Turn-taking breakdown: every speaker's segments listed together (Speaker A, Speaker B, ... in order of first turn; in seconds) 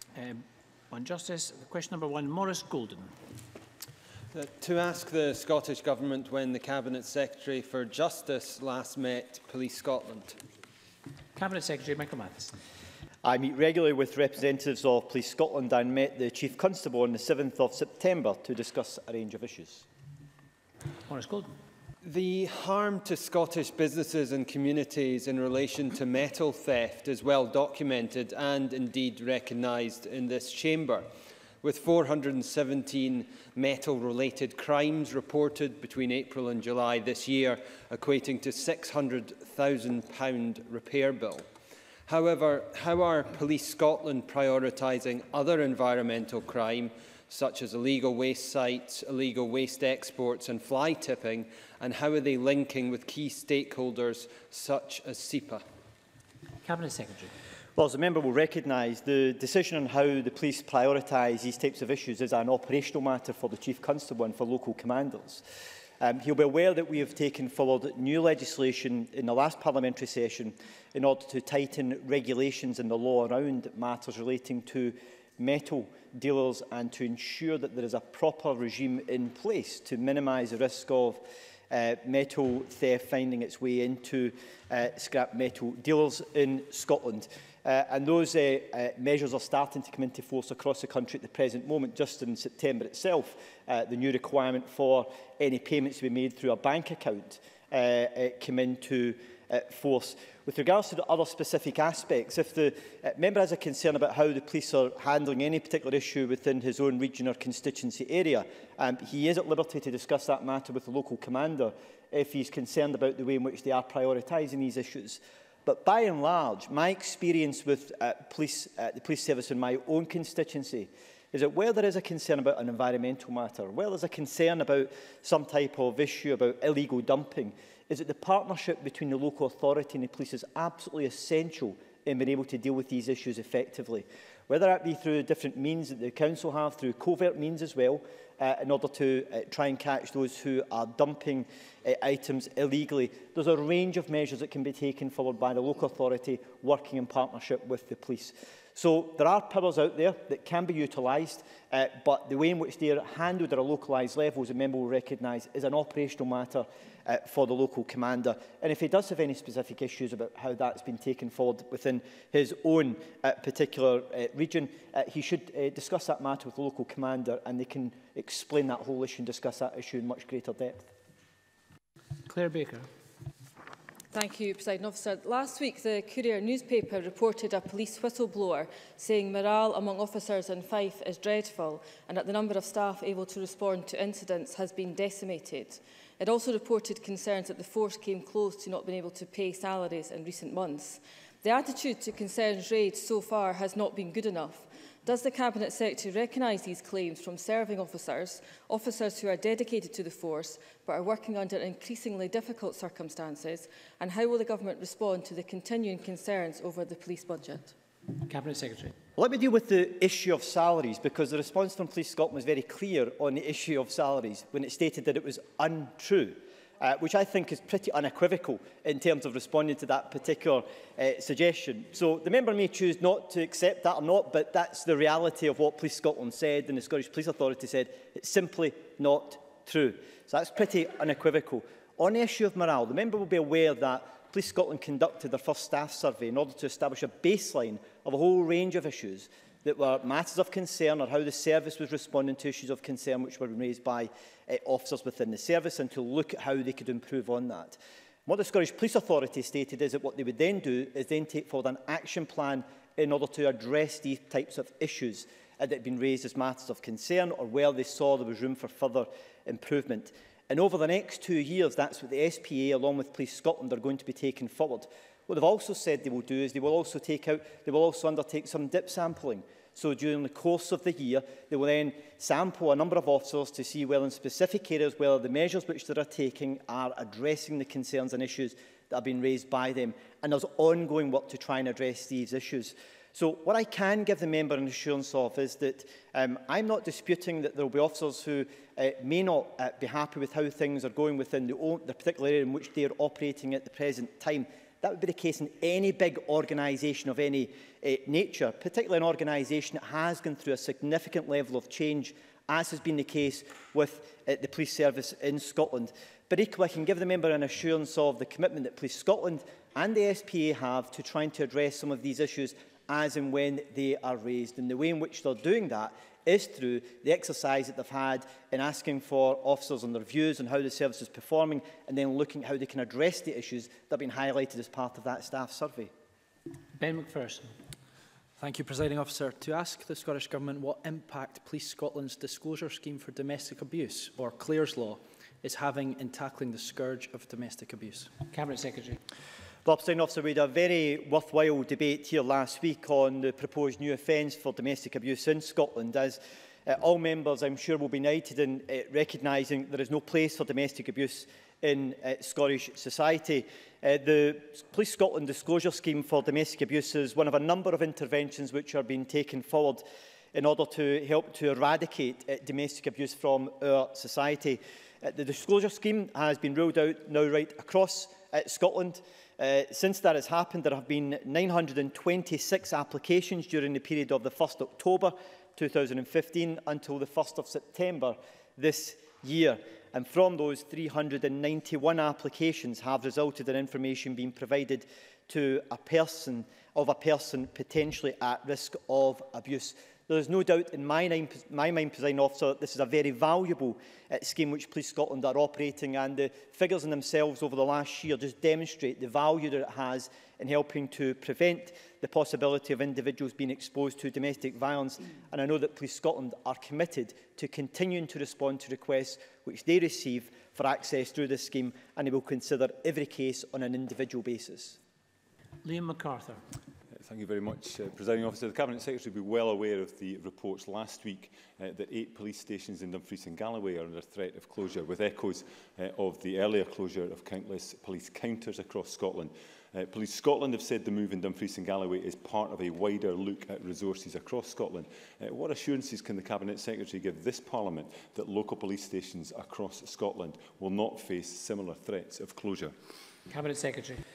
Speaker A: 0.1-3.1, 11.3-12.5, 21.1-21.5, 56.6-57.3, 172.3-172.9, 208.3-208.9, 326.8-327.5, 338.3-339.0, 415.6-416.4, 443.3-444.0
Speaker B: 4.3-10.4, 22.0-31.1, 31.6-41.5, 42.1-55.6
Speaker C: 13.2-19.9, 57.8-65.4, 66.0-170.9, 209.2-325.9, 339.6-414.8
Speaker D: 174.1-207.7
Speaker E: 328.4-338.1
Speaker F: 416.9-442.7